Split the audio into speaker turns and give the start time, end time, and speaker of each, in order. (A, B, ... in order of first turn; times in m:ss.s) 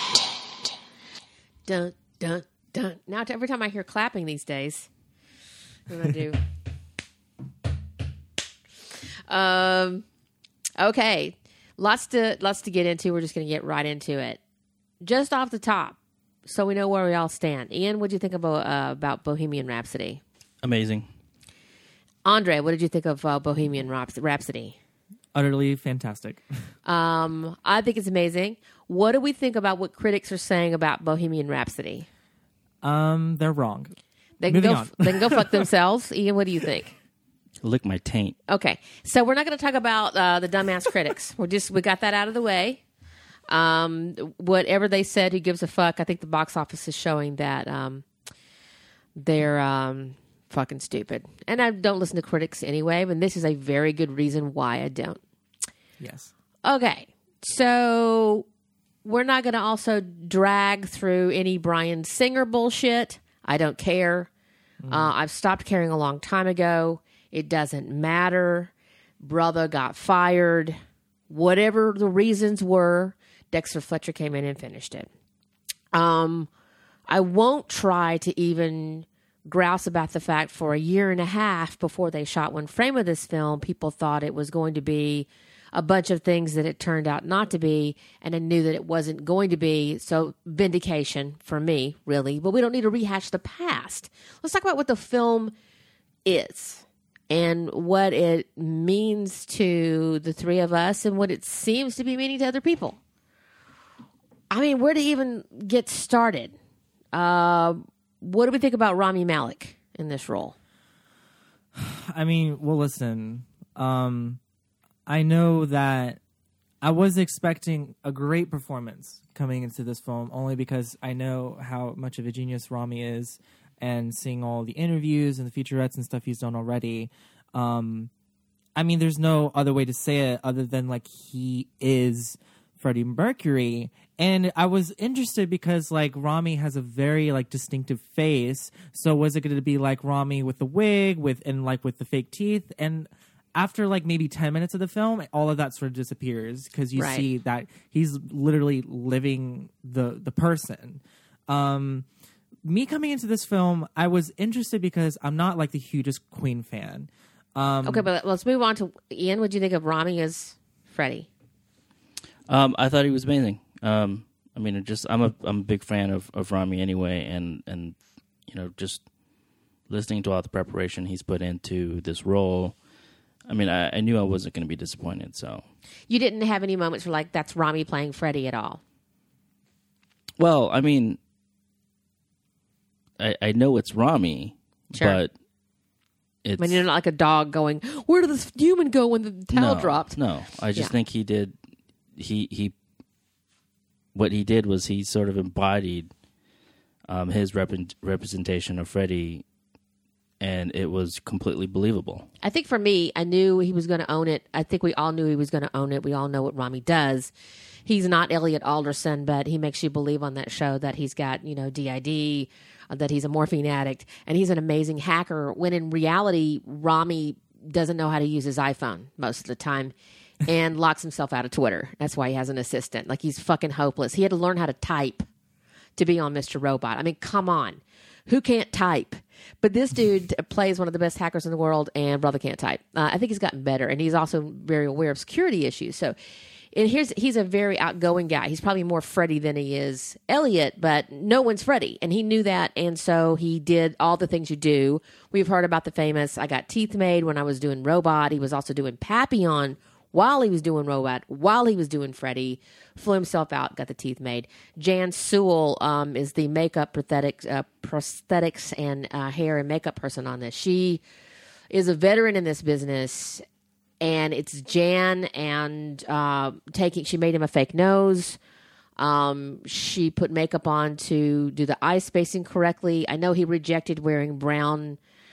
0:01.7-0:04.9 A
0:05.9-0:06.4 A
0:09.3-0:10.0 A
0:10.8-0:14.4 A
0:15.0-0:20.2 A
0:20.6-0:21.1 B
0:22.2-0:24.8 A
0:25.3-0:26.4 C
0:26.8-0:32.1 A
0:32.8-0:33.9 C
0:34.4-0:36.9 A
0:34.5-0:35.4 C
0:37.6-0:38.4 B
0:38.5-0:42.8 A
0:43.5-0:48.1 A
0:49.2-0:55.2 A
0:56.0-0:56.3 C
0:56.6-0:58.5 A
0:59.0-1:04.3 A
1:04.8-1:05.1 C
1:04.9-1:10.8 A
1:11.3-1:15.1 A
1:15.9-1:16.5 A
1:17.1-1:35.5 A
1:36.2-1:43.0 A
1:44.5-1:46.6 A
1:47.1-1:50.6 A
1:51.7-1:54.4 C
1:55.1-1:56.2 C
1:56.8-2:08.1 C
2:08.8-2:32.1 C
2:27.0-2:27.3 A
2:32.6-2:38.1 C
2:37.8-2:41.3 A
2:42.5-2:49.1 B
2:49.9-2:52.8 B
2:53.5-2:55.6 B
2:56.1-2:58.8 A
3:00.4-3:01.2 B
3:03.2-3:05.3 B
3:04.9-3:05.2 A
3:06.4-3:06.8 B
3:06.6-3:10.2 A
3:09.5-3:11.6 B
3:12.2-3:12.8 B
3:14.1-3:16.1 B
3:17.1-3:19.4 B
3:20.4-3:22.3 B
3:22.4-3:27.3 A
3:27.9-3:39.9 A
3:40.4-3:45.3 A
3:46.0-3:56.2 A
3:56.7-4:21.0 A
4:21.7-4:23.4 A
4:24.0-4:28.4 A
4:29.0-4:35.0 A